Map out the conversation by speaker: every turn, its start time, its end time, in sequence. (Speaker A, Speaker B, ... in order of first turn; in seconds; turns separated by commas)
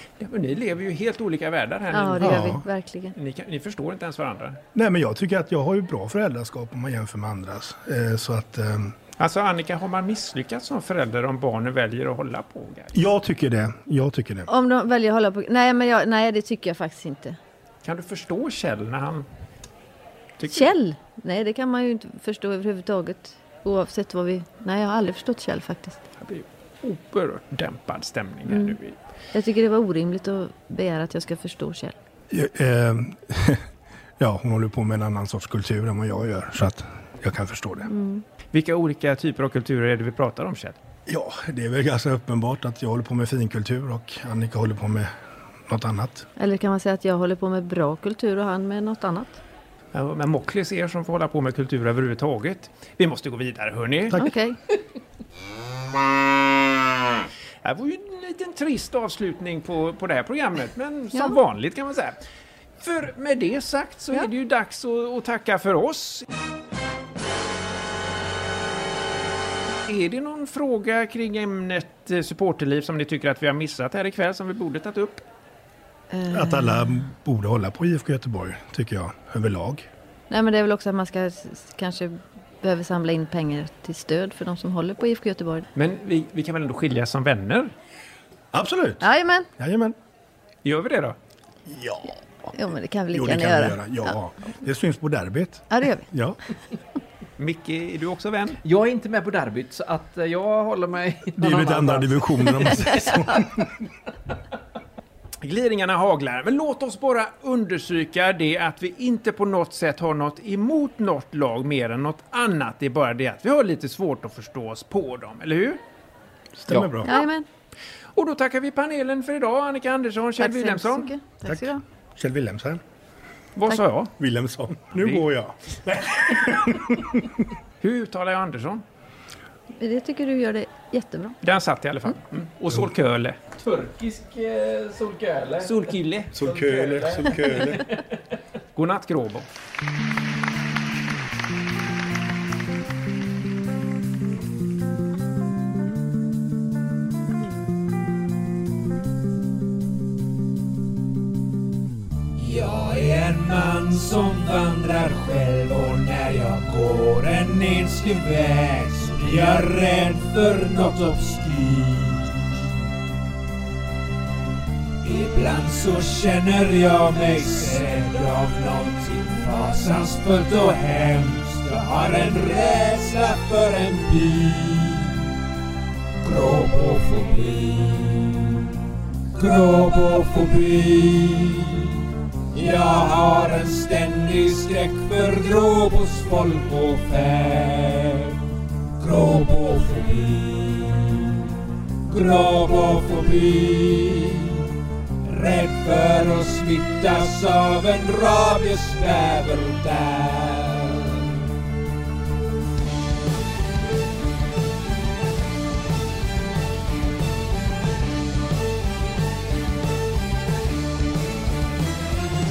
Speaker A: 0.2-2.6, Speaker B: 1.9-3.1, Speaker C: 2.2-2.6, Speaker A: 3.1-4.6, Speaker C: 4.8-8.9, Speaker A: 9.2-12.9, Speaker C: 12.9-14.5, Speaker B: 14.5-17.4, Speaker A: 17.8-19.3, Speaker A: 20.4-20.7, Speaker B: 20.5-26.0, Speaker A: 26.2-29.0, Speaker B: 28.5-28.8, Speaker B: 29.3-31.9, Speaker C: 32.3-33.6, Speaker C: 34.2-37.9, Speaker B: 37.9-38.2, Speaker A: 38.5-40.8, Speaker C: 41.1-45.1, Speaker C: 45.7-46.3, Speaker B: 46.4-49.4, Speaker A: 49.9-54.2, Speaker B: 54.1-54.6, Speaker A: 57.6-62.2, Speaker A: 62.8-66.3, Speaker A: 69.9-75.2, Speaker B: 76.1-76.9, Speaker C: 76.3-79.9, Speaker B: 80.3-85.7, Speaker A: 85.8-87.7, Speaker C: 88.5-90.0, Speaker B: 89.0-89.5, Speaker A: 90.7-91.2, Speaker C: 91.7-92.1, Speaker B: 92.5-94.2, Speaker C: 93.1-96.4, Speaker B: 95.7-96.1, Speaker A: 97.4-98.6, Speaker D: 98.7-103.2, Speaker C: 101.4-103.7, Speaker A: 105.4-115.8, Speaker C: 116.6-117.2, Speaker D: 116.7-117.0, Speaker B: 117.0-117.5, Speaker A: 118.2-121.1, Speaker B: 120.4-121.8, Speaker C: 121.5-122.8, Speaker A: 123.6-124.1, Speaker C: 124.2-127.4, Speaker A: 125.0-125.3, Speaker A: 127.8-128.8, Speaker B: 129.8-131.4, Speaker A: 131.4-133.4, Speaker D: 133.6-138.0, Speaker A: 135.6-136.4, Speaker C: 136.3-137.9, Speaker A: 138.8-139.5, Speaker E: 152.4-162.6, Speaker E: 165.0-175.2, Speaker E: 176.2-178.7, Speaker E: 179.3-181.9, Speaker E: 182.5-188.4, Speaker E: 189.0-191.5, Speaker E: 192.1-194.6, Speaker E: 195.2-201.3